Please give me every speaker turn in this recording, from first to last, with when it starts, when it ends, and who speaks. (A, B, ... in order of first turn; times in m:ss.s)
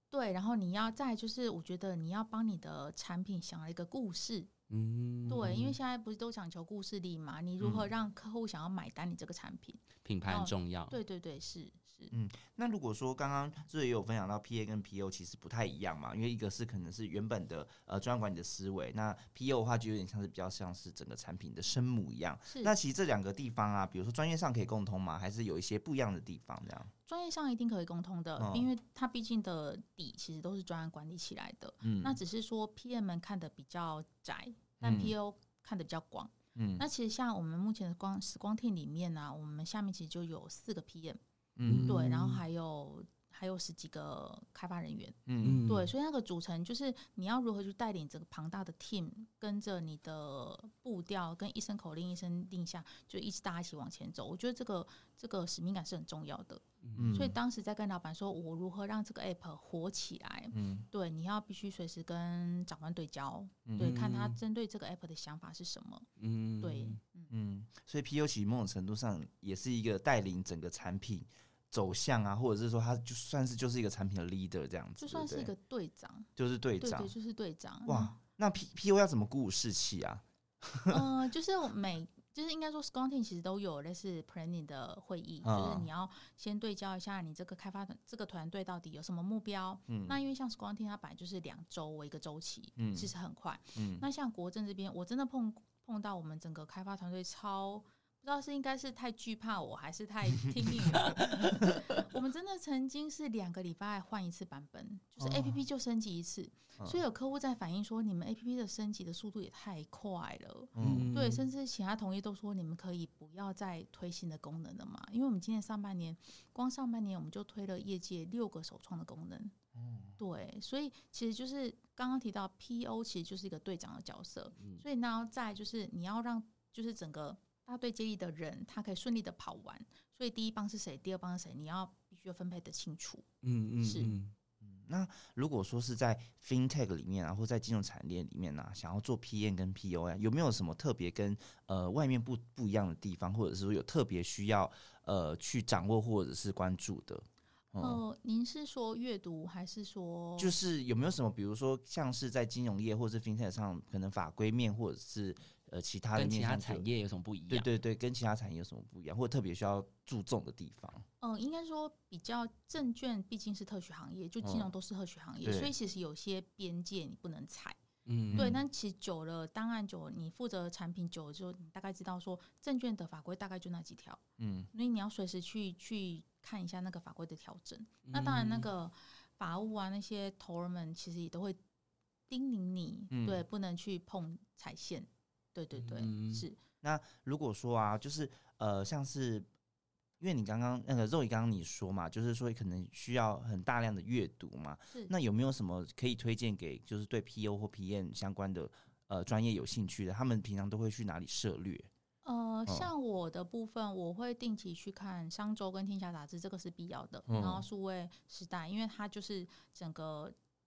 0:00.1-0:04.5 A
0:04.7-0:05.7 B
0:05.3-0:12.1 A
0:07.6-0:07.9 C
0:10.0-0:11.0 B
0:12.1-0:26.9 C
0:22.5-0:22.7 A
0:27.0-0:41.2 A
0:28.4-0:28.7 C
0:31.8-0:32.2 C
0:34.8-0:35.1 C
0:36.5-0:36.8 C
0:41.6-0:42.4 C
0:41.6-0:42.3 B
0:41.9-1:06.1 A
0:45.3-0:45.6 C
0:45.4-0:45.9 B
0:56.8-0:57.1 B
0:56.9-0:57.4 C
1:00.5-1:00.9 C
1:03.6-1:04.0 C
1:03.8-1:04.4 B
1:06.2-1:07.0 B
1:06.6-1:07.3 A
1:07.3-1:15.5 C
1:15.0-1:16.3 A
1:16.4-1:17.1 C
1:16.8-1:18.2 A
1:17.8-1:21.0 C
1:20.9-1:59.5 A
1:25.4-1:25.9 C
1:29.9-1:30.2 C
1:32.8-1:33.1 C
1:33.7-1:34.0 C
1:41.0-1:41.4 B
1:45.2-1:45.6 C
1:50.8-1:51.2 C
1:50.8-1:51.4 B
1:59.7-2:00.2 C
2:00.2-2:13.2 A
2:04.6-2:04.8 B
2:13.4-2:14.3 B
2:13.8-2:14.2 A
2:14.6-2:28.0 C
2:27.8-2:30.6 A
2:30.4-2:36.9 C
2:36.1-2:37.7 B
2:37.5-2:41.0 C
2:41.2-2:47.8 A
2:44.4-2:44.7 C
2:45.4-2:45.7 C
2:48.0-2:48.5 B
2:48.3-2:48.6 C
2:48.4-2:54.2 A
2:54.4-2:54.7 C
2:54.7-3:01.6 A
2:58.1-2:58.7 B
3:02.3-3:06.6 A
3:03.1-3:03.4 C
3:05.8-3:06.4 B
3:06.8-3:09.5 C
3:10.2-3:21.9 C
3:22.2-3:30.3 A
3:27.3-3:27.6 C